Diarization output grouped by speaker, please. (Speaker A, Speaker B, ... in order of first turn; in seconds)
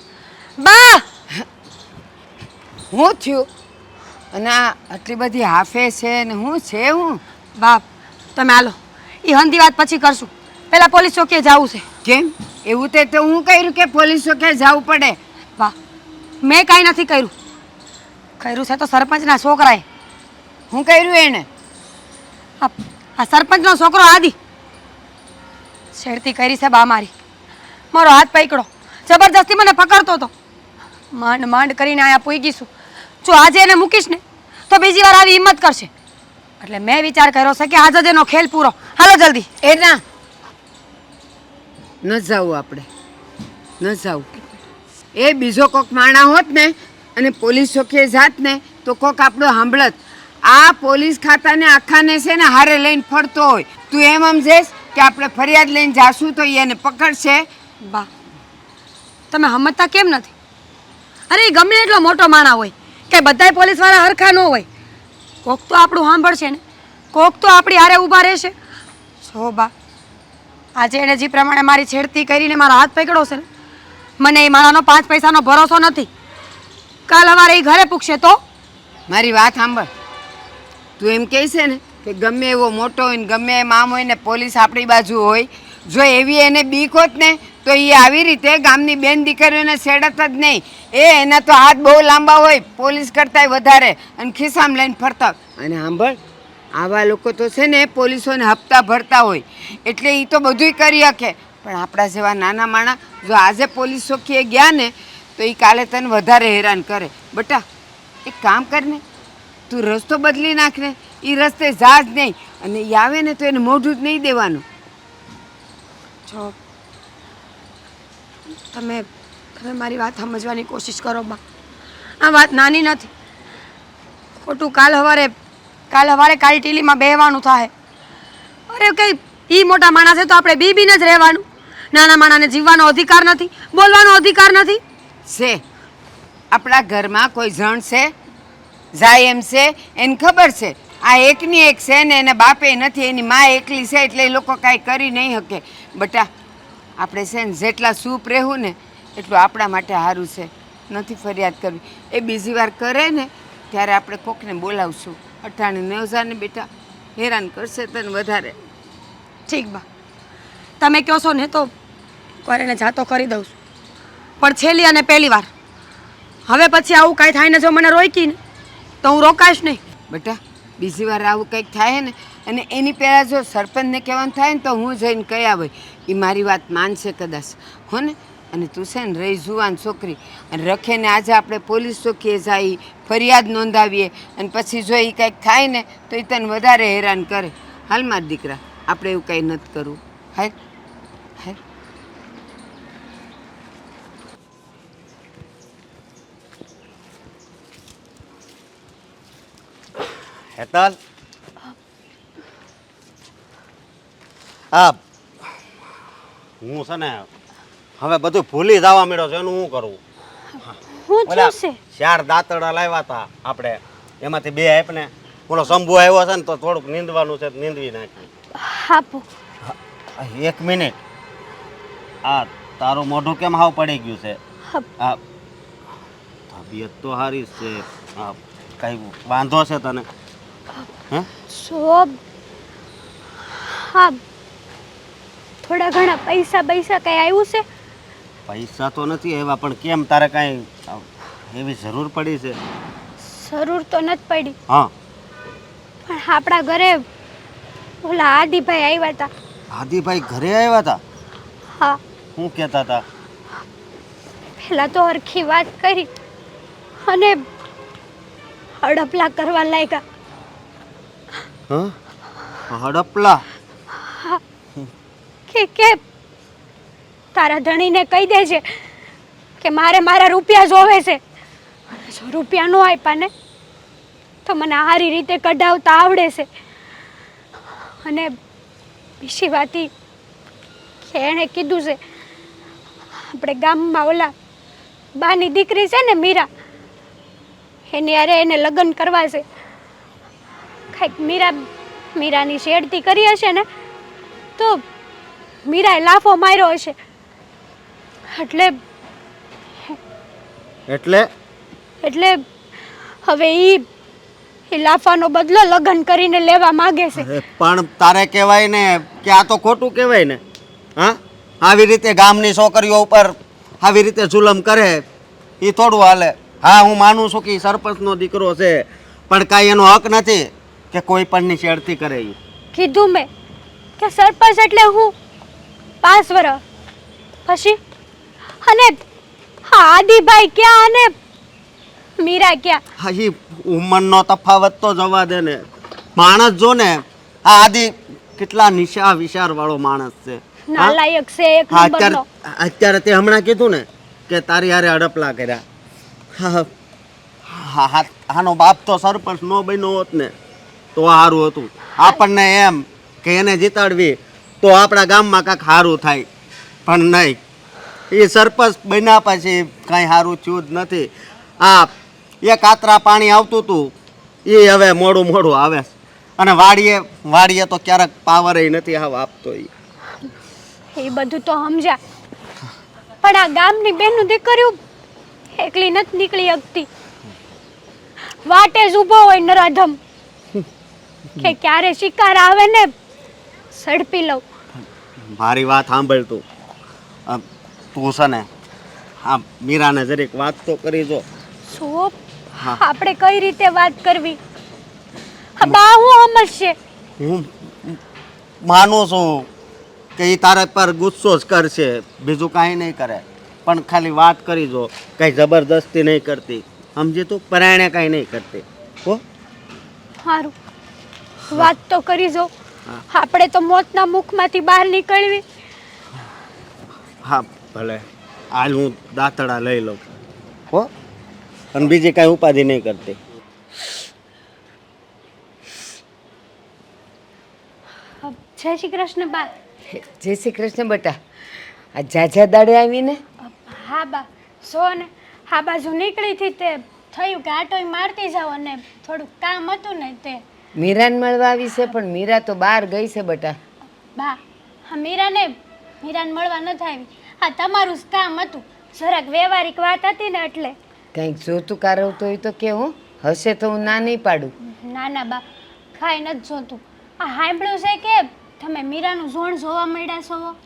Speaker A: 0.6-1.1, 7.6-7.8, 8.3-11.8, 16.4-17.3, 18.4-19.8, 22.6-24.4, 25.9-27.1, 27.9-30.3, 31.1-32.7, 33.2-35.9, 36.6-39.5, 57.8-58.1, 59.3-60.3, 61.3-64.7, 65.4-66.6, 67.1-68.5, 69.2-69.7, 70.8-73.5, 74.2-76.1, 77.1-78.4, 116.3-116.5, 118.7-121.4, 122.2-123.1, 124.4-125.3, 125.9-127.7, 128.7-134.8, 159.5-159.8, 160.8-161.7, 162.4-163.5, 164.4-165.5, 166.4-168.4, 169.0-169.8
Speaker B: 2.9-3.5, 4.3-7.2, 12.0-15.2, 20.7-21.5, 39.6-40.0, 42.0-42.9, 43.8-44.3, 45.1-57.4, 79.1-79.9, 81.0-96.2, 96.8-107.6, 108.2-109.0, 109.7-114.6, 135.3-135.6, 136.5-138.1, 138.9-146.3, 147.0-158.5, 170.1-190.5, 429.9-431.1, 431.9-433.2, 440.8-443.6, 451.1-454.5
Speaker C: 200.5-201.0, 204.7-205.0, 206.6-207.3, 208.0-210.0, 211.3-218.2, 219.7-220.9, 222.2-224.4, 226.5-230.1, 238.5-242.6, 249.7-251.0, 252.3-253.0, 261.7-261.9, 262.7-263.4, 300.9-301.3, 307.2-310.4, 311.0-315.0, 315.6-322.4, 333.0-335.6, 336.1-341.0, 341.7-345.6, 346.4-346.7, 347.5-350.3, 350.9-356.3, 356.9-357.4, 358.1-363.9, 364.4-369.7, 385.3-386.4, 387.3-388.5, 389.2-391.2, 397.2-398.0, 398.6-399.5, 400.2-409.2, 417.2-420.0, 421.7-423.2
Speaker D: 210.9-211.8, 218.6-219.3, 231.5-232.2, 233.5-234.2, 235.6-237.6, 243.2-244.5, 246.1-247.0, 248.0-249.3, 254.6-256.1, 257.0-257.4, 258.8-260.0, 264.0-264.4, 265.5-266.0, 267.3-268.8, 269.6-271.2, 272.0-273.3, 274.4-276.5, 278.0-278.3, 279.2-279.9, 281.1-282.0, 283.1-284.3, 285.1-286.5, 287.9-289.4, 290.9-291.6, 292.1-293.6, 294.6-294.8, 295.6-296.9, 298.3-298.8, 302.0-302.4, 303.1-303.9, 304.7-307.3, 322.7-323.3, 324.0-325.1, 326.0-326.6, 327.4-327.8, 328.6-329.0, 329.6-331.1, 332.2-332.8, 340.7-342.2, 370.9-372.0, 373.2-374.8, 375.5-376.9, 378.3-380.0, 381.4-382.9, 383.7-384.4, 391.6-394.4, 395.6-396.8, 410.2-410.5, 411.5-412.5, 413.1-415.4, 428.2-429.5, 433.4-440.4, 444.1-450.7, 454.6-455.4, 455.9-460.6